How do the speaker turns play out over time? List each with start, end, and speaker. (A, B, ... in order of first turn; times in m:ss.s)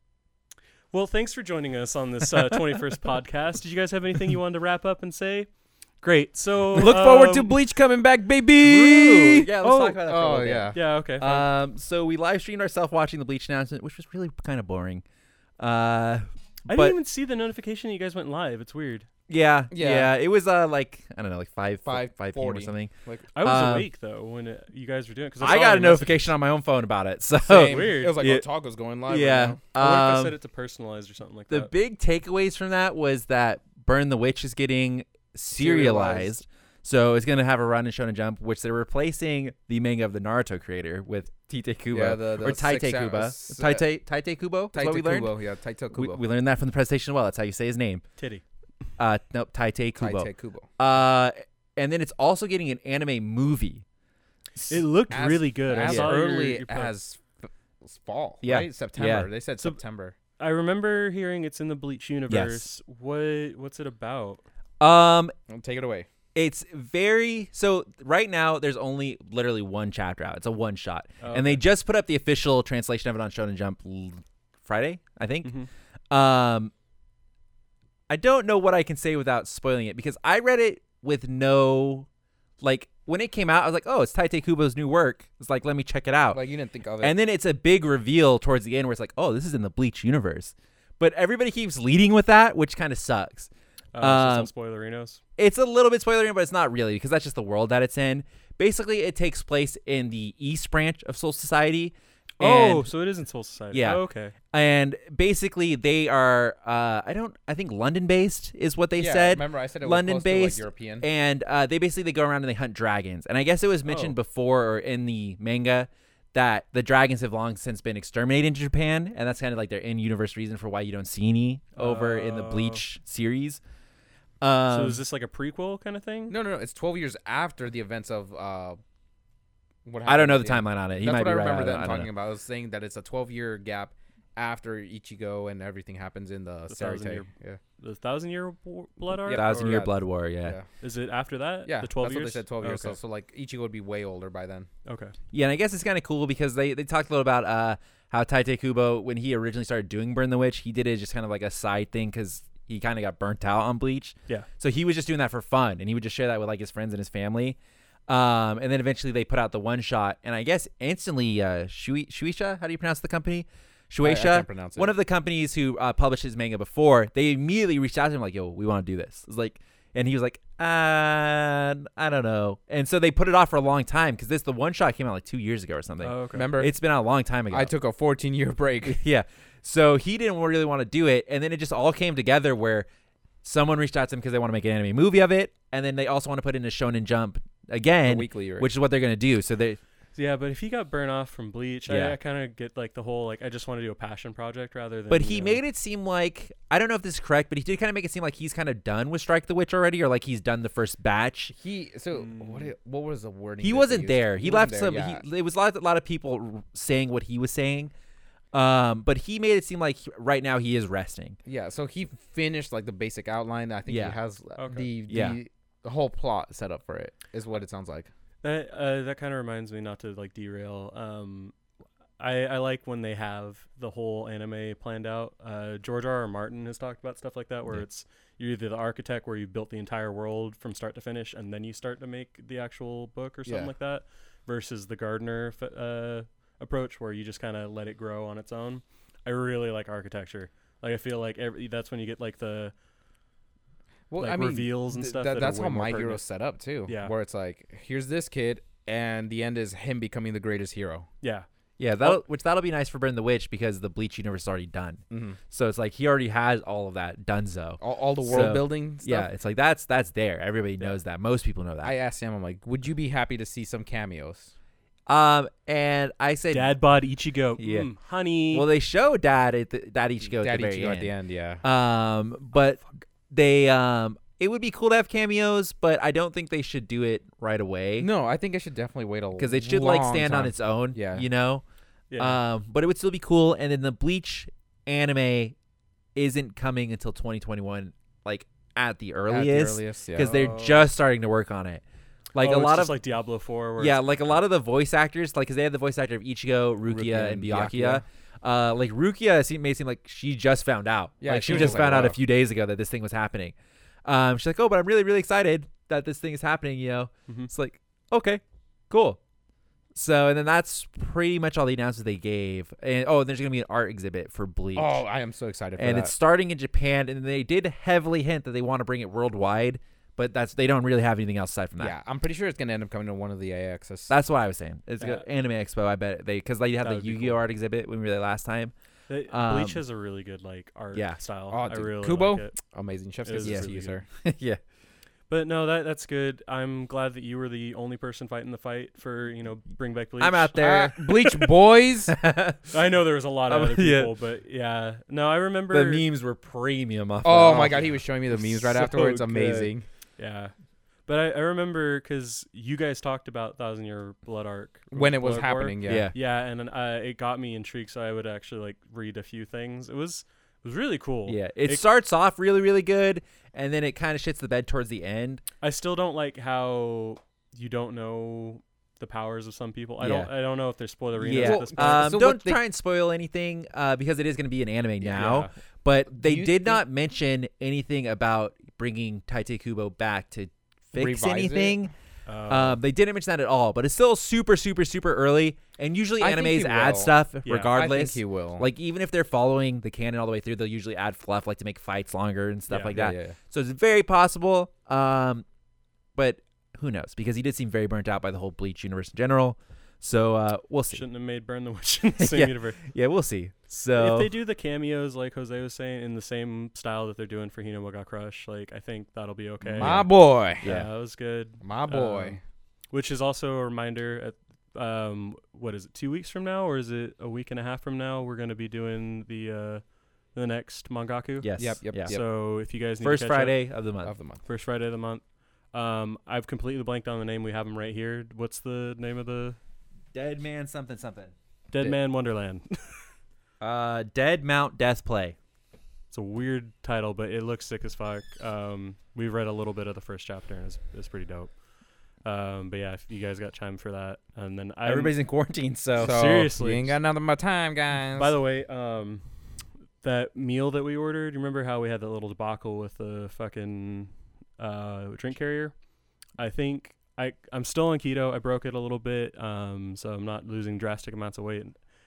0:00.9-0:05.5 A
0:06.0-0:07.5 A
0:06.7-0:09.5 B
0:08.6-0:15.0 C
0:09.6-0:10.0 A
0:10.0-0:10.8 B
0:10.7-0:11.5 A
0:15.6-0:17.0 C
0:16.7-0:19.1 A
0:19.3-0:22.9 C
0:19.7-0:20.1 B
0:21.8-0:23.3 B
0:23.3-0:26.3 A
0:23.4-0:23.9 C
0:25.4-0:28.4 C
0:27.4-0:29.6 B
0:27.6-0:28.2 A
0:29.1-0:30.4 C
0:29.8-0:31.7 A
0:31.5-0:45.3 C
0:35.6-0:36.4 B
0:41.9-0:43.8 B
0:44.7-0:46.2 B
0:45.9-0:48.0 C
0:48.2-0:48.4 A
0:49.0-0:53.8 C
0:50.0-0:50.7 B
0:54.7-0:56.9 A
0:55.1-1:00.1 B
0:55.7-0:56.2 C
0:58.4-0:59.3 C
1:00.4-1:04.4 A
1:02.3-1:02.6 C
1:04.8-1:05.3 C
1:05.5-1:06.1 B
1:06.3-1:15.5 C
1:11.2-1:11.6 A
1:15.4-1:15.7 A
1:16.1-1:16.7 C
1:18.1-1:22.1 C
1:22.6-1:26.4 C
1:26.3-1:27.1 B
1:27.0-1:34.5 C
1:33.9-1:35.2 A
1:35.4-1:42.9 C
1:42.4-1:44.3 A
1:43.7-2:03.6 C
1:49.0-1:51.1 B
1:53.8-1:54.1 A
2:01.8-2:02.8 A
2:04.4-2:05.0 C
2:04.7-2:06.3 A
2:06.3-2:08.8 B
2:09.8-2:17.6 B
2:10.0-2:12.1 C
2:16.7-2:17.3 A
2:17.8-2:19.8 A
2:19.2-2:20.6 B
2:19.3-2:20.6 C
2:20.8-2:23.0 A
2:21.6-2:24.7 B
2:24.8-2:25.1 A
2:25.3-2:57.7 C
2:44.0-2:44.9 B
2:56.0-2:56.5 A
2:56.3-2:56.7 B
2:57.5-2:59.0 B
2:58.8-3:02.9 C
3:03.4-3:09.8 C
3:08.0-3:08.7 B
3:10.1-3:15.6 A
3:11.9-3:12.2 C
3:15.1-3:21.5 C
3:21.5-3:25.2 B
3:22.1-3:22.6 A
3:23.6-3:27.9 C
3:28.5-3:31.4 C
3:31.4-3:38.1 B
3:33.9-3:34.2 C
3:34.6-3:34.9 A
3:35.1-3:35.4 C
3:38.4-3:41.5 A
3:42.2-4:02.7 A
3:53.4-3:53.7 B
4:04.1-4:11.1 B
4:04.2-4:06.2 A
4:06.8-4:07.1 A
4:11.2-4:11.5 A
4:11.8-4:22.0 C
4:15.1-4:15.4 B
4:17.8-4:19.3 B
4:21.8-4:24.5 B
4:25.1-4:26.8 C
4:26.5-4:28.6 A
4:27.6-4:27.9 C
4:28.5-4:31.1 C
4:30.3-4:31.6 B
4:31.6-4:38.1 C
4:38.0-4:41.2 B
4:39.4-4:41.6 C
4:42.1-4:42.4 A
4:42.2-4:45.5 C
4:46.2-4:51.8 C
4:49.3-4:50.4 B
4:50.2-4:50.8 A
4:52.3-4:53.0 C
4:52.4-4:54.0 A
4:53.8-5:03.5 C
4:56.8-4:58.0 B
5:01.2-5:02.2 B
5:01.5-5:01.8 A
5:04.0-5:09.2 C
5:09.9-5:15.0 C
5:14.7-5:16.1 B
5:15.8-5:21.9 C
5:21.8-5:24.1 B
5:24.1-5:28.7 C
5:26.8-5:27.4 A
5:29.1-5:32.6 A
5:29.3-5:29.8 C
5:30.9-5:31.2 C
5:31.5-5:34.0 B
5:33.2-5:34.0 A
5:33.4-5:34.6 C
5:35.3-5:40.5 A
5:40.2-5:41.6 C
5:40.6-5:42.1 B
5:42.1-5:42.7 C
5:42.7-5:46.0 A
5:43.5-5:44.1 C
5:45.7-5:49.7 C
5:47.2-5:49.8 B
5:50.2-5:50.5 A
5:51.0-6:01.8 A
5:54.9-5:56.1 B
5:55.8-5:56.1 C
6:01.2-6:05.4 C
6:05.6-6:12.1 A
6:10.0-6:10.3 C
6:11.2-6:21.9 C
6:11.3-6:12.6 B
6:15.0-6:15.5 B
6:15.1-6:15.5 A
6:16.1-6:16.8 B
6:20.9-6:21.8 B
6:22.3-6:22.8 A
6:22.5-6:35.4 C
6:26.2-6:27.1 B
6:27.4-6:27.7 A
6:27.7-6:28.7 B
6:32.7-6:32.9 A
6:32.9-6:33.4 B
6:36.2-6:41.0 C
6:40.9-6:42.8 A
6:42.2-6:44.3 C
6:43.9-6:50.1 A
6:49.7-6:50.1 C
6:49.8-6:50.6 B
6:50.6-6:52.4 A
6:50.6-6:50.9 C
6:51.6-6:52.4 B
6:52.9-7:03.6 A
7:01.4-7:02.3 C
7:01.6-7:02.2 B
7:03.0-7:04.1 C
7:04.0-7:04.4 B
7:04.4-7:09.6 A
7:10.1-7:11.3 C
7:11.7-7:13.0 A
7:13.6-7:15.4 C
7:16.1-7:21.5 A
7:22.2-7:25.1 A
7:24.8-7:26.2 C
7:26.0-7:27.0 A
7:26.0-7:28.4 B
7:28.1-7:29.2 A
7:30.0-7:35.8 A
7:36.4-7:41.8 A